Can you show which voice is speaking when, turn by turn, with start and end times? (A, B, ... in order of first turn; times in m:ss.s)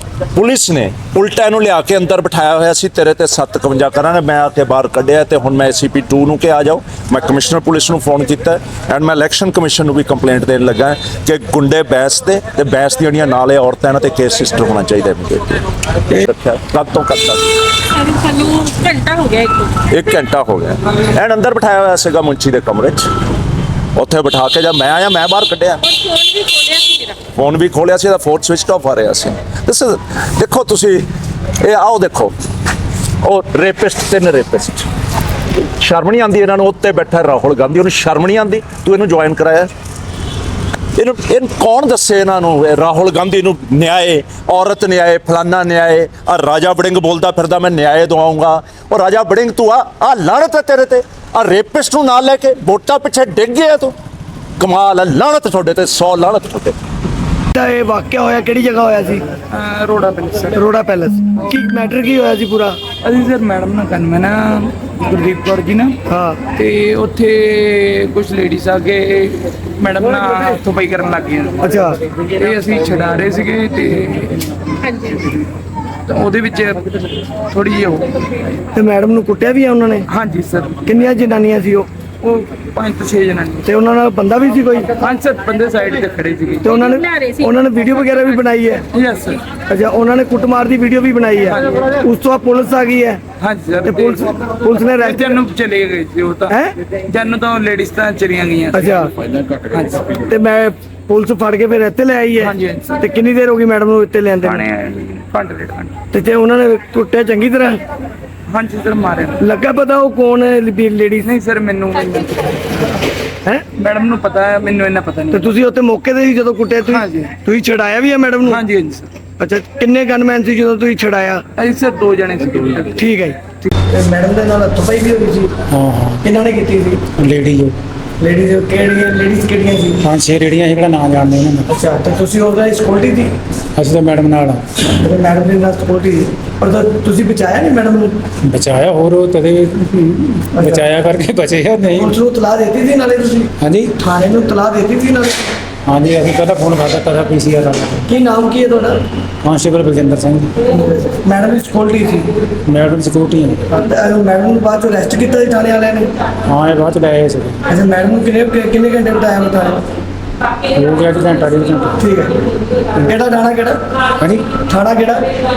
0:00.3-0:17.6 A
0:17.8-0:19.8 B
0:19.9-0:23.1 A
0:24.0-0:25.8 A
0:25.8-0:27.2 B
0:27.4-0:31.1 A
0:31.6-0:32.3 A
0:33.2-0:34.9 A
0:35.8-0:39.7 A
0:41.0-0:54.0 A
0:54.6-0:56.8 A
0:57.5-0:59.2 C
0:59.5-1:00.5 D
1:00.5-1:02.8 C
1:03.1-1:05.9 D
1:06.1-1:06.4 C
1:06.6-1:09.0 D
1:09.9-1:11.5 D
1:11.6-1:12.0 C
1:12.4-1:14.4 D
1:16.1-1:16.8 D
1:17.5-1:18.0 D
1:18.7-1:20.1 C
1:20.2-1:20.8 D
1:20.8-1:21.9 C
1:22.2-1:23.6 D
1:23.7-1:25.0 C
1:25.0-1:26.6 D
1:26.6-1:28.8 C
1:26.7-1:27.4 B
1:29.0-1:29.4 D
1:29.7-1:33.2 C
1:33.4-1:33.9 D
1:33.8-1:35.2 C
1:35.0-1:36.5 D
1:37.1-1:38.7 D
1:38.7-1:39.1 C
1:39.4-1:40.2 D
1:40.3-1:44.7 C
1:42.5-1:42.9 D
1:44.8-1:46.0 D
1:46.1-1:47.8 C
1:48.6-1:49.4 D
1:49.4-1:51.3 C
1:51.4-1:51.9 D
1:53.8-1:55.3 D
1:55.3-1:58.6 C
1:58.7-1:59.0 D
1:59.4-2:01.4 C
2:01.6-2:02.3 D
2:03.0-2:03.4 C
2:03.9-2:05.5 C
2:05.7-2:06.2 E
2:06.2-2:07.0 C
2:07.2-2:07.8 E
2:08.2-2:10.0 C
2:10.0-2:11.7 E
2:11.7-2:13.3 C
2:13.8-2:14.7 E
2:14.9-2:18.2 C
2:18.4-2:22.2 E
2:20.5-2:20.9 C
2:22.0-2:25.5 C
2:23.6-2:24.0 E
2:25.9-2:28.1 E
2:28.1-2:29.0 C
2:29.4-2:30.6 E
2:30.7-2:32.3 C
2:32.7-2:33.7 E
2:33.7-2:36.1 C
2:36.5-2:37.6 E
2:37.7-2:39.8 C
2:40.7-2:42.0 E
2:42.0-2:42.4 C
2:43.0-2:43.8 C
2:44.2-2:44.5 E
2:44.6-2:45.3 C